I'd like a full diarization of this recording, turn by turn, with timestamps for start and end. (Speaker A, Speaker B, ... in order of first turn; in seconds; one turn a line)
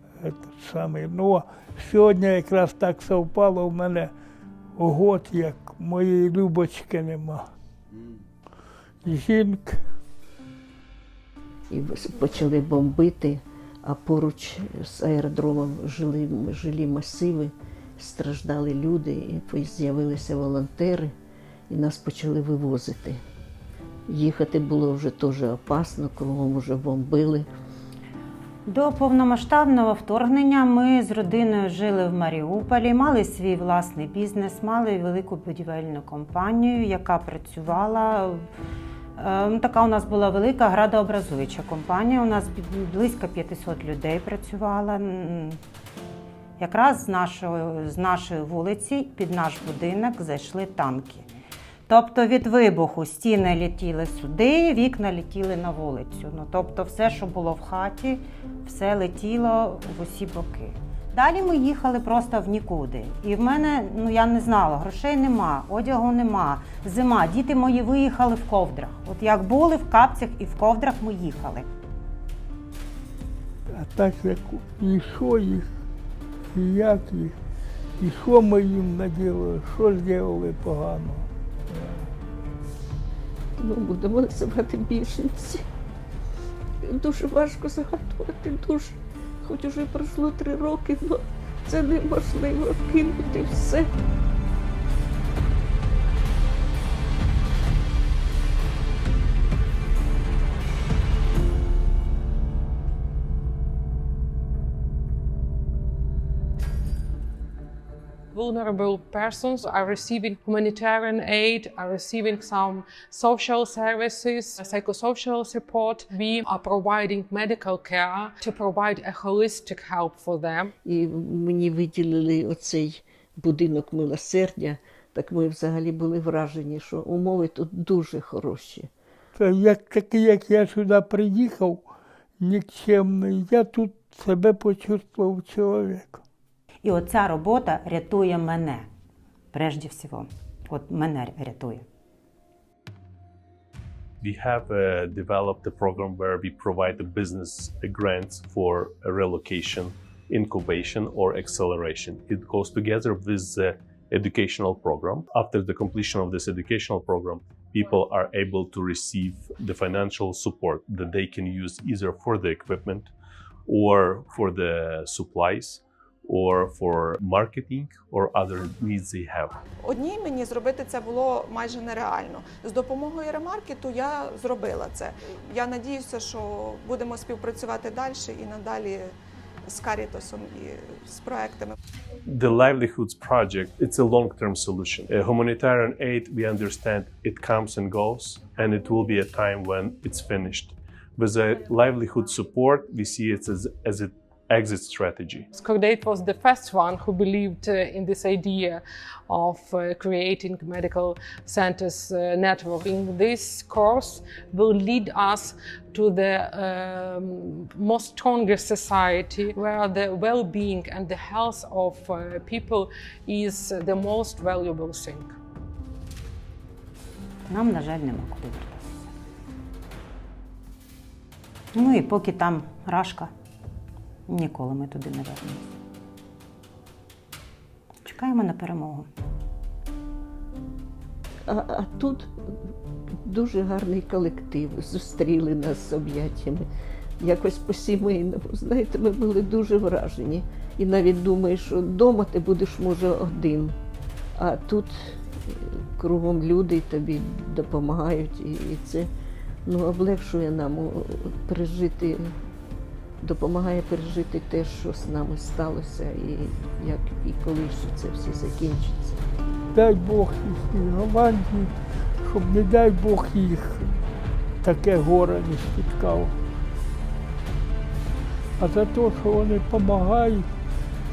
Speaker A: 0.2-4.1
Speaker A: 4.8-7.5
Speaker A: 9.0-9.8
Speaker B: 11.7-21.1
Speaker B: 21.7-23.2
Speaker B: 24.1-27.5
Speaker C: 28.6-38.5
Speaker C: 39.1-45.6
Speaker C: 46.6-51.3
Speaker C: 51.9-71.7
Speaker A: 73.7-75.7
Speaker A: 76.5-77.4
Speaker A: 78.0-82.1
Speaker B: 83.6-85.7
Speaker B: 86.8-93.9
Speaker D: 108.3-120.7
Speaker B: 120.8-128.9
Speaker A: 129.3-131.8
Speaker A: 132.4-136.2
Speaker C: 136.8-138.8
Speaker C: 139.5-141.8
Speaker E: 144.2-163.1
Speaker E: 163.7-169.6
Speaker F: 169.8-179.1
Speaker F: 179.7-181.7
Speaker E: 182.2-195.5
Speaker D: 195.6-215.3
Speaker C: 217.5-219.1
Speaker C: 221.7-223.3
Speaker C: 224.3-225.7
Speaker C: 228.0-229.1
Speaker B: 231.5-232.3
Speaker B: 233.2-236.7
Speaker B: 237.2-243.8
Speaker B: 244.4-249.1
Speaker B: 249.6-252.3
Speaker B: 253.2-259.2
Speaker A: 259.7-263.9
Speaker A: 264.6-266.4
Speaker A: 268.6-270.5